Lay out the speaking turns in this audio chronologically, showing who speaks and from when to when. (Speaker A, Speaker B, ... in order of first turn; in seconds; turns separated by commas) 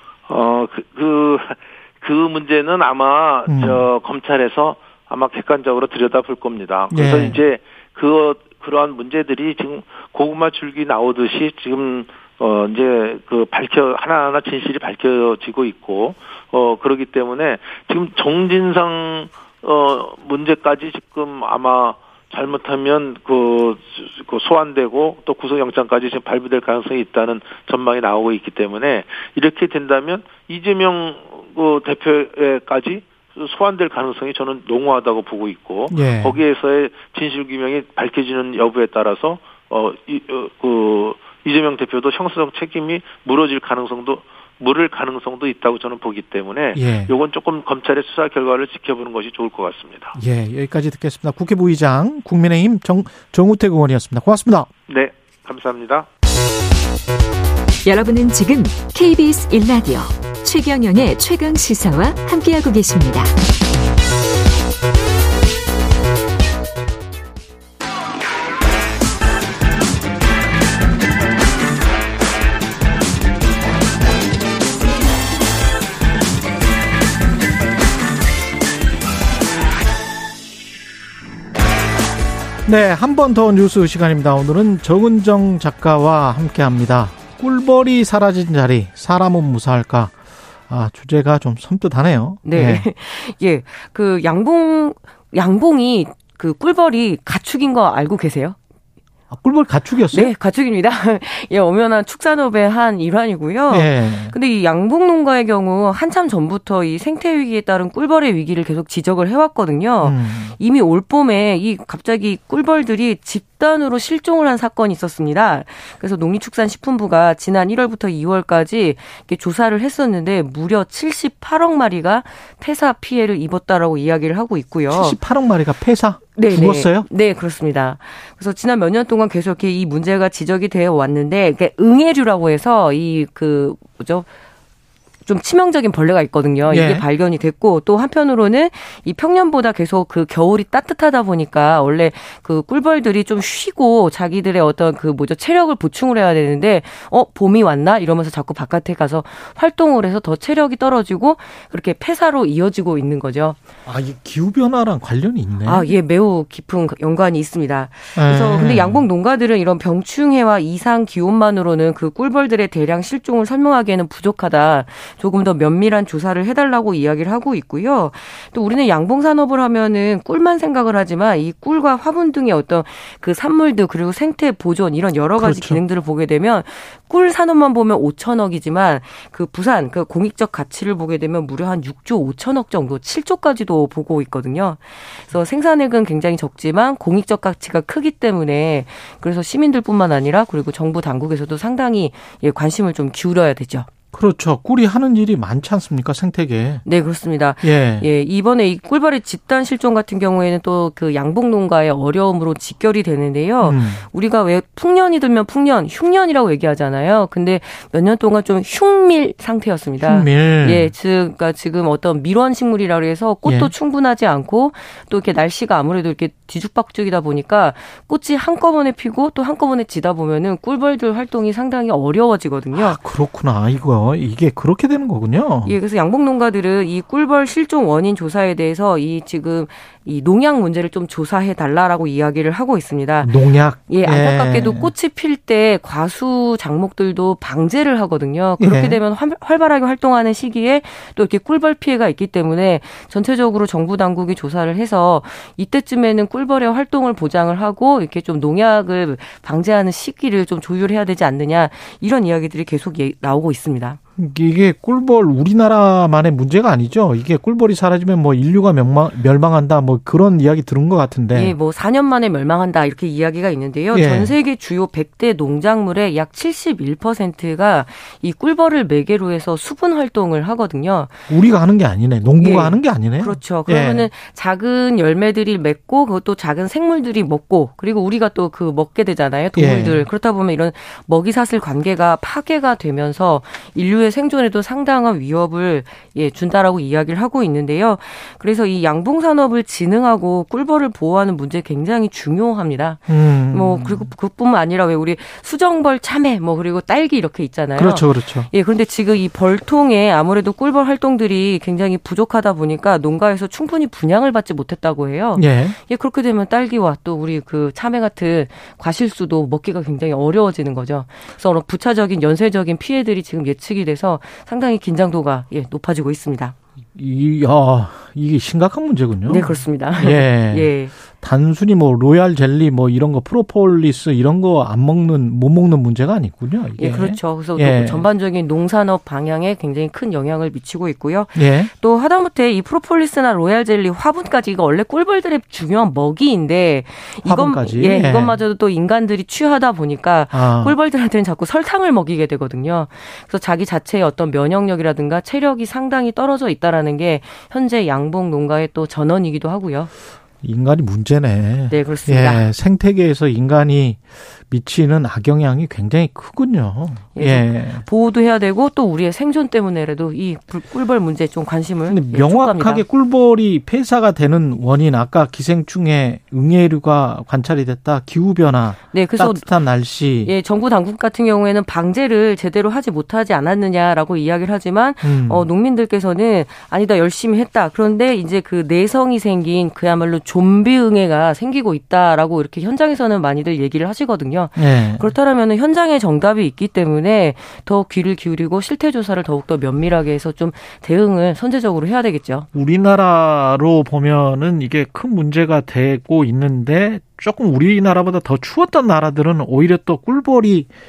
Speaker A: 0.3-50.2, Speaker B: 3.5-3.9, Speaker B: 6.9-7.4, Speaker B: 35.9-36.4, Speaker B: 46.8-47.1, Speaker B: 50.2-54.7, Speaker A: 54.9-56.1, Speaker C: 57.9-63.3, Speaker B: 82.7-90.2, Speaker B: 90.7-92.8, Speaker D: 92.4-98.6, Speaker B: 99.3-100.3, Speaker D: 100.1-125.2, Speaker B: 103.7-104.3, Speaker B: 110.0-110.6, Speaker B: 124.9-127.1, Speaker D: 126.3-134.3, Speaker D: 135.3-153.6, Speaker B: 136.7-137.0, Speaker B: 153.9-155.9, Speaker D: 155.6-193.9, Speaker B: 158.2-159.0, Speaker B: 175.4-175.8, Speaker B: 194.1-196.8, Speaker D: 196.8-223.0, Speaker B: 197.6-198.1, Speaker B: 203.6-204.1, Speaker B: 210.0-210.9, Speaker B: 213.4-213.7, Speaker B: 222.8-225.7, Speaker D: 225.7-254.0, Speaker B: 233.2-234.9, Speaker B: 238.6-239.0, Speaker B: 254.2-261.6, Speaker D: 261.3-271.3, Speaker B: 263.9-264.4, Speaker B: 271.3-274.1, Speaker D: 272.4-316.6, Speaker B: 279.6-280.1, Speaker B: 293.1-294.1, Speaker B: 297.8-298.5, Speaker B: 305.4-305.8, Speaker B: 316.9-328.1, Speaker D: 319.3-320.9, Speaker D: 326.8-349.9, Speaker B: 331.4-331.7, Speaker B: 337.3-338.4, Speaker B: 340.3-340.8, Speaker B: 350.4-357.9, Speaker D: 351.7-352.5, Speaker D: 357.1-362.9, Speaker B: 361.9-370.3, Speaker D: 368.9-369.6, Speaker D: 370.2-392.5, Speaker B: 375.0-375.5, Speaker B: 384.6-385.1, Speaker B: 392.5-400.7